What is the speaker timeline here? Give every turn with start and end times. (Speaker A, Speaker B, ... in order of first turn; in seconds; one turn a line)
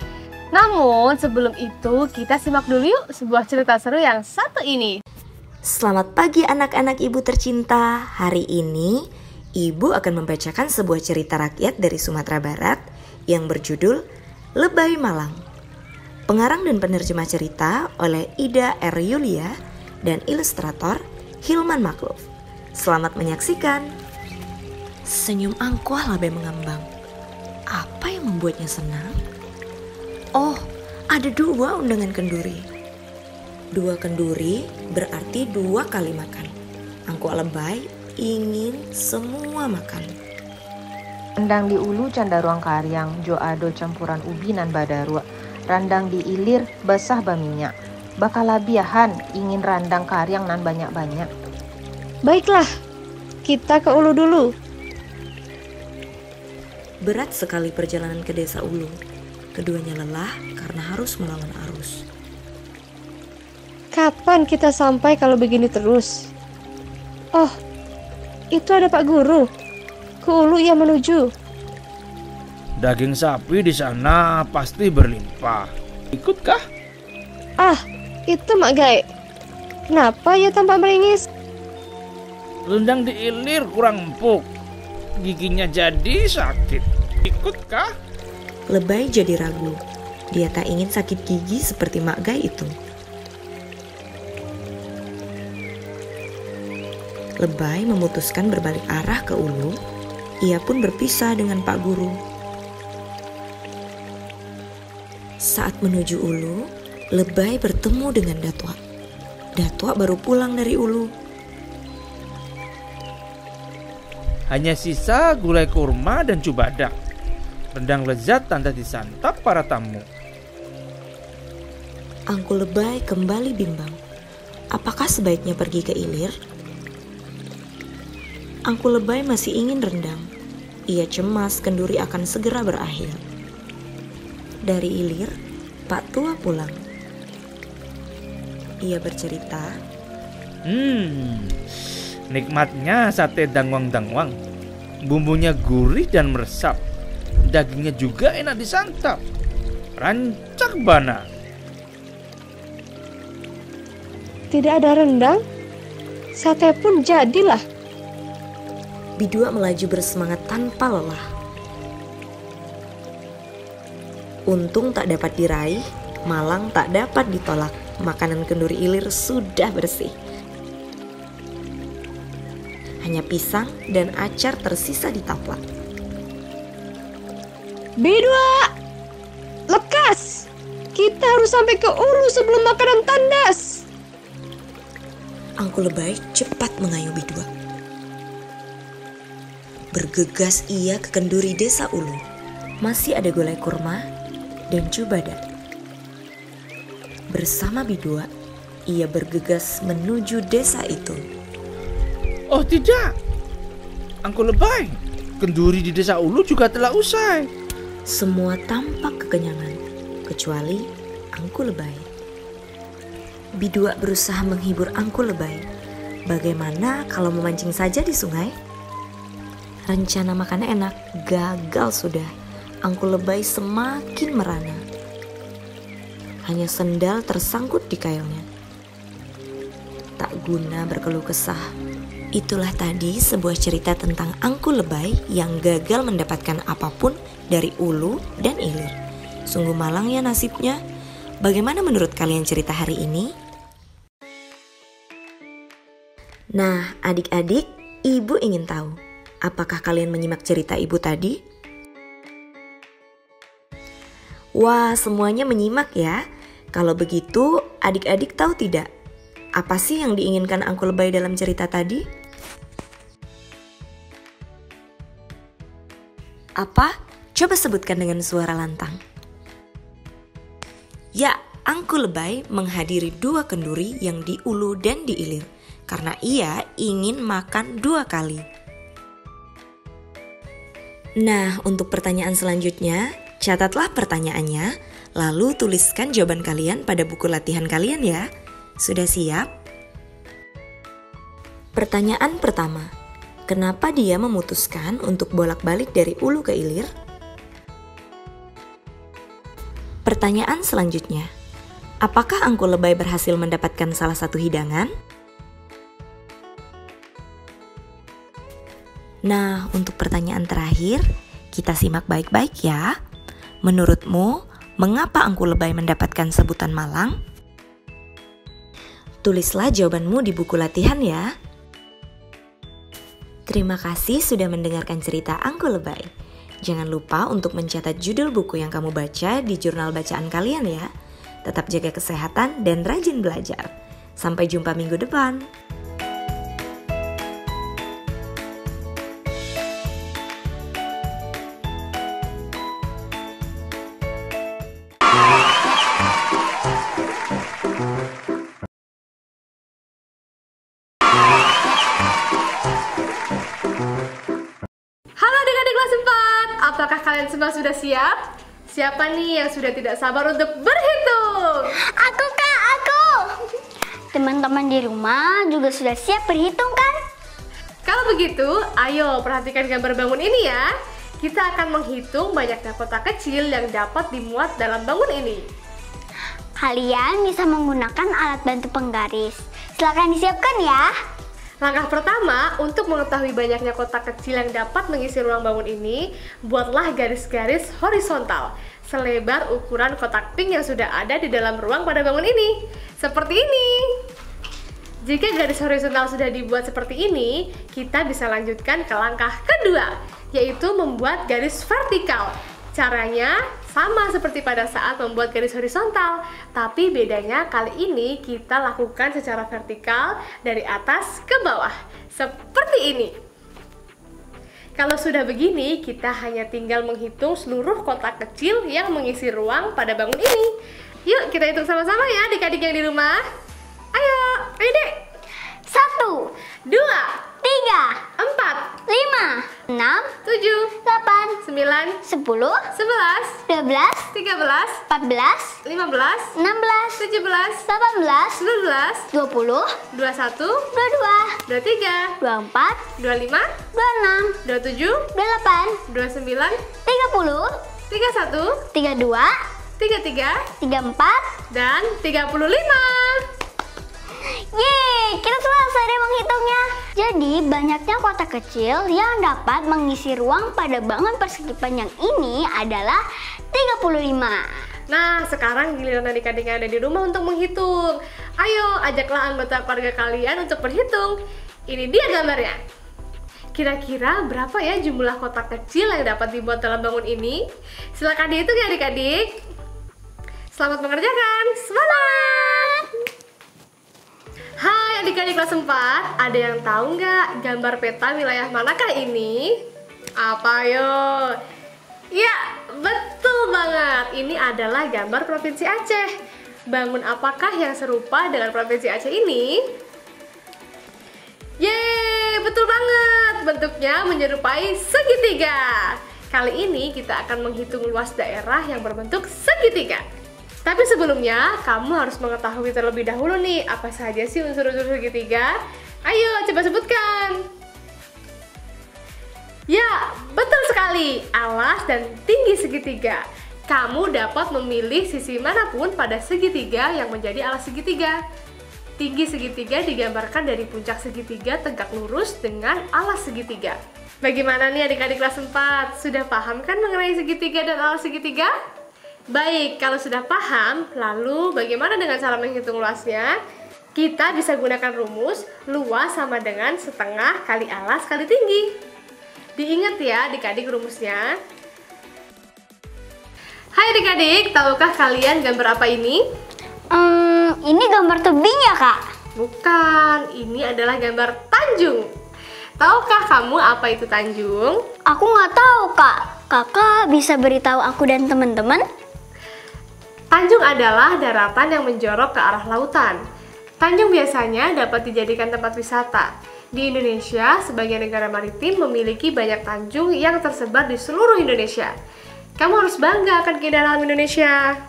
Speaker A: 0.5-5.0
Speaker B: 5.7-8.9
Speaker B: 9.6-14.0
Speaker B: 14.6-15.4
Speaker B: 16.3-19.5
Speaker B: 20.1-22.2
Speaker B: 22.8-23.9
Speaker B: 25.1-26.9
Speaker B: 27.7-29.2
Speaker B: 30.4-32.6
Speaker B: 33.8-36.5
Speaker B: 37.1-40.1
Speaker C: 41.4-51.3
Speaker D: 52.2-52.7
Speaker D: 53.5-54.5
Speaker B: 57.0-58.9
Speaker B: 59.5-62.0
Speaker D: 63.9-66.3
Speaker D: 68.5-69.5
Speaker D: 70.2-71.3
Speaker E: 72.8-76.6
Speaker D: 77.6-79.0
Speaker D: 79.9-81.3
Speaker E: 82.7-84.4
Speaker E: 85.2-87.9
Speaker B: 88.7-89.8
Speaker B: 90.3-92.7
Speaker B: 97.4-99.8
Speaker B: 100.4-102.2
Speaker B: 105.5-108.8
Speaker B: 109.6-111.1
Speaker E: 114.5-116.9
Speaker E: 117.7-120.0
Speaker B: 122.3-124.0
Speaker B: 124.7-126.3
Speaker B: 128.7-130.3
Speaker B: 130.9-133.2
Speaker B: 134.7-135.3
Speaker B: 135.9-136.8
Speaker B: 138.8-139.8
Speaker E: 140.7-141.5
Speaker E: 142.3-144.3
Speaker E: 145.1-146.8
Speaker E: 147.5-149.2
Speaker E: 150.0-151.2
Speaker D: 154.5-155.4
Speaker D: 156.4-157.6
Speaker B: 159.2-161.2
Speaker B: 164.5-170.1
Speaker B: 173.0-175.6
Speaker D: 178.0-178.7
Speaker D: 179.7-183.8
Speaker B: 185.6-187.5
Speaker B: 189.9-192.2
Speaker B: 192.8-194.0
Speaker B: 194.7-195.4
Speaker B: 197.3-198.3
Speaker B: 198.9-201.2
Speaker E: 202.5-203.1
Speaker E: 204.2-207.5
Speaker B: 208.1-212.1
Speaker B: 213.6-215.6
Speaker B: 216.3-218.5
Speaker B: 219.9-222.3
Speaker B: 222.9-224.8
Speaker B: 226.5-228.4
Speaker B: 230.2-231.6
Speaker B: 232.3-238.9
Speaker B: 239.5-240.8
Speaker B: 241.4-243.3
Speaker B: 246.6-251.4
Speaker B: 254.6-256.2
Speaker B: 256.7-258.9
Speaker B: 259.6-262.0
Speaker B: 266.6-269.0
Speaker B: 271.2-278.5
Speaker B: 281.2-288.2
Speaker B: 288.8-289.5
Speaker B: 291.8-292.9
Speaker B: 293.5-296.9
Speaker B: 300.1-301.3
Speaker B: 302.0-304.9
Speaker B: 309.3-312.9
Speaker B: 313.6-317.2
Speaker B: 319.2-321.3
Speaker B: 323.5-326.1
Speaker B: 326.6-330.9
Speaker B: 331.5-333.7
Speaker B: 334.2-335.5
Speaker A: 355.2-358.2
Speaker A: 358.7-361.7
Speaker F: 362.0-363.3
Speaker F: 364.1-367.0
Speaker A: 367.9-370.6
Speaker A: 371.2-375.4
Speaker F: 376.6-380.9
Speaker A: 381.6-393.8
Speaker A: 395.1-413.1
Speaker A: 414.8-420.5
Speaker A: 421.1-423.2
Speaker A: 423.9-424.9
Speaker F: 425.7-426.3
Speaker A: 426.7-427.2
Speaker F: 427.4-428.0
Speaker A: 428.2-428.7
Speaker F: 428.9-430.1
Speaker A: 430.2-430.8
Speaker F: 430.8-431.4
Speaker A: 431.4-432.0
Speaker F: 432.0-432.7
Speaker A: 432.8-433.4
Speaker F: 433.5-434.1
Speaker A: 434.1-434.8
Speaker F: 434.9-435.6
Speaker A: 435.6-436.3
Speaker F: 436.4-437.0
Speaker A: 437.0-437.6
Speaker F: 437.7-438.4
Speaker A: 438.4-439.1
Speaker F: 439.1-439.8
Speaker A: 439.9-440.7
Speaker F: 440.7-441.4
Speaker A: 441.5-442.2
Speaker F: 442.2-442.9
Speaker A: 443.0-443.5
Speaker F: 443.7-444.4
Speaker A: 444.4-445.1
Speaker F: 445.1-445.8
Speaker A: 445.9-446.6
Speaker F: 446.9-447.5
Speaker A: 447.9-448.6
Speaker F: 448.7-449.3
Speaker A: 449.8-450.4
Speaker F: 450.6-451.3
Speaker A: 451.5-453.2
Speaker F: 454.3-463.0
Speaker F: 463.5-464.4
Speaker A: 464.9-471.1
Speaker A: 471.7-472.6
Speaker A: 473.6-477.4
Speaker A: 478.0-479.3
Speaker A: 480.6-482.9
Speaker F: 482.1-482.8
Speaker A: 484.6-489.6
Speaker A: 490.2-491.4
Speaker A: 492.1-496.1
Speaker A: 496.7-499.5
Speaker A: 501.6-510.0
Speaker A: 510.6-515.5
Speaker A: 516.1-517.4
Speaker A: 519.7-528.2
Speaker A: 529.0-538.5
Speaker A: 539.3-543.4
Speaker A: 544.0-548.7
Speaker A: 549.6-551.3
Speaker A: 553.8-556.2
Speaker F: 556.9-559.0
Speaker A: 559.4-562.1
Speaker A: 562.8-564.8
Speaker F: 565.1-568.8
Speaker A: 570.3-573.2
Speaker A: 573.8-581.9
Speaker A: 582.6-584.6